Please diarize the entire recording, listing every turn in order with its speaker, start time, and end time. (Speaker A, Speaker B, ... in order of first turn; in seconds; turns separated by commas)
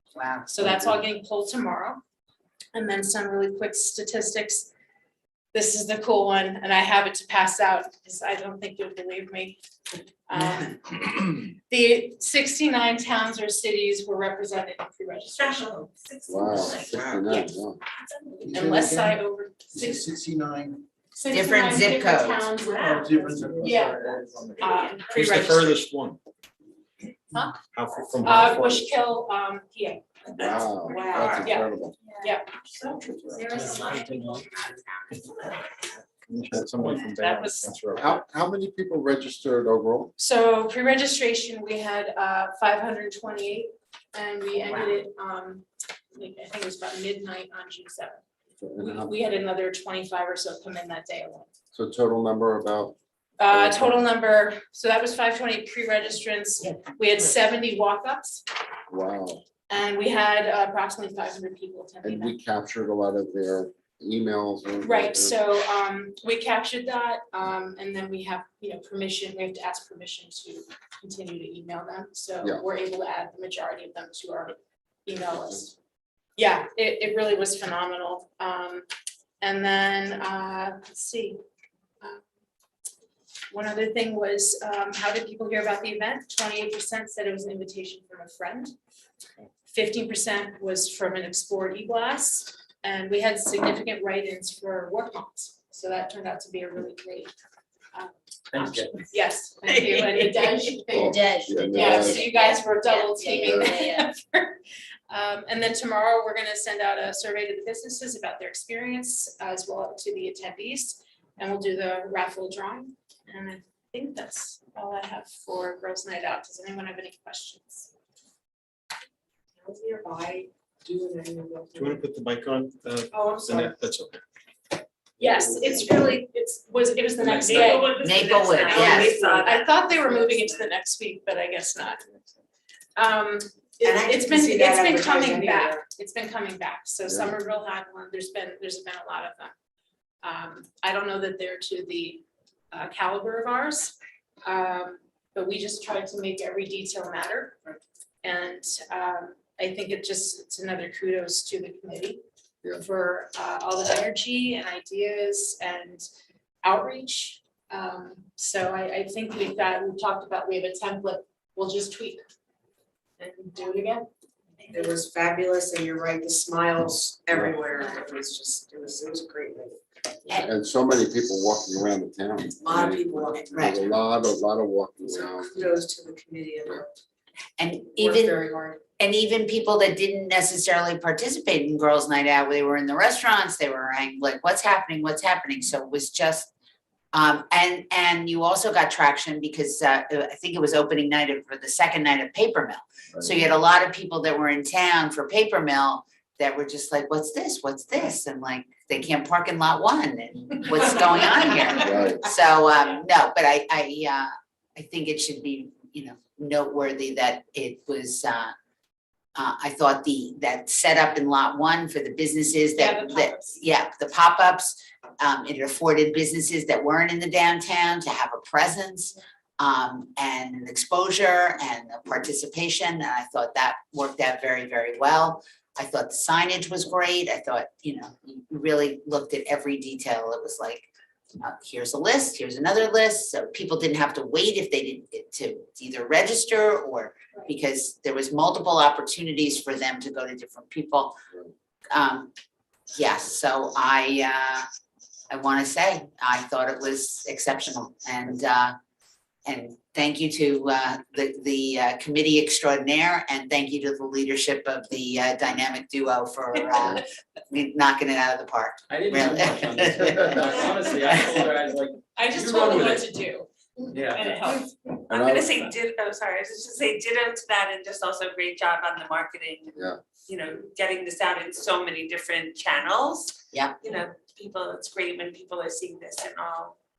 Speaker A: 0.2-0.5, Speaker B: 0.5-2.0, Speaker C: 0.6-0.9, Speaker B: 2.7-4.7, Speaker B: 5.5-9.6, Speaker B: 10.3-15.7, Speaker D: 15.4-17.3, Speaker C: 16.3-17.8, Speaker D: 17.9-18.7, Speaker B: 18.4-20.2, Speaker E: 20.5-20.8, Speaker B: 21.1-25.8, Speaker A: 21.3-22.5, Speaker D: 22.6-23.3, Speaker E: 23.0-24.5, Speaker F: 23.4-23.8, Speaker G: 25.1-26.2, Speaker B: 27.3-27.6, Speaker G: 27.7-28.9, Speaker B: 28.2-30.0, Speaker D: 30.3-31.6, Speaker C: 30.4-32.0, Speaker B: 31.4-31.7, Speaker D: 32.1-33.0, Speaker B: 32.2-32.5, Speaker C: 33.0-33.5, Speaker F: 33.4-34.2, Speaker G: 33.5-34.5, Speaker D: 33.6-34.0, Speaker G: 36.3-38.2, Speaker B: 37.2-37.8, Speaker C: 37.9-40.1, Speaker B: 40.2-48.2, Speaker C: 48.6-49.1, Speaker B: 48.8-51.5, Speaker C: 51.7-53.0, Speaker B: 53.4-58.4, Speaker C: 53.5-54.0, Speaker C: 58.9-59.5, Speaker B: 59.7-62.4, Speaker C: 62.0-65.4, Speaker B: 64.8-75.8, Speaker B: 76.4-78.9, Speaker B: 79.4-81.4, Speaker B: 83.5-88.7, Speaker B: 89.7-97.3, Speaker B: 97.9-104.6, Speaker E: 98.5-99.0, Speaker C: 100.9-102.3, Speaker F: 101.0-104.1, Speaker C: 103.4-103.8, Speaker B: 105.1-117.9, Speaker F: 119.6-122.0, Speaker G: 121.8-124.2, Speaker F: 123.1-123.7, Speaker B: 125.2-132.0, Speaker C: 125.3-125.8, Speaker G: 127.2-127.6, Speaker D: 127.4-130.5, Speaker A: 128.0-129.2, Speaker B: 133.0-139.5, Speaker F: 133.8-135.8, Speaker C: 137.1-137.3, Speaker B: 140.2-147.7, Speaker B: 148.2-152.2, Speaker B: 152.8-156.1, Speaker B: 156.6-162.2, Speaker B: 163.2-164.1, Speaker F: 164.7-169.8, Speaker C: 170.3-175.7, Speaker F: 172.6-173.8, Speaker A: 173.5-173.8, Speaker F: 175.1-176.9, Speaker A: 177.6-178.4, Speaker F: 178.0-178.8, Speaker A: 179.0-186.5, Speaker A: 187.1-208.5, Speaker C: 201.7-202.3, Speaker A: 209.4-230.9, Speaker B: 212.8-213.6, Speaker A: 231.4-241.1, Speaker A: 241.9-242.3, Speaker A: 242.9-244.6, Speaker A: 245.3-248.8, Speaker A: 249.5-261.4, Speaker E: 258.9-263.1, Speaker B: 262.1-263.5, Speaker E: 263.9-264.3, Speaker B: 264.1-264.7, Speaker D: 264.1-276.8, Speaker C: 265.1-265.7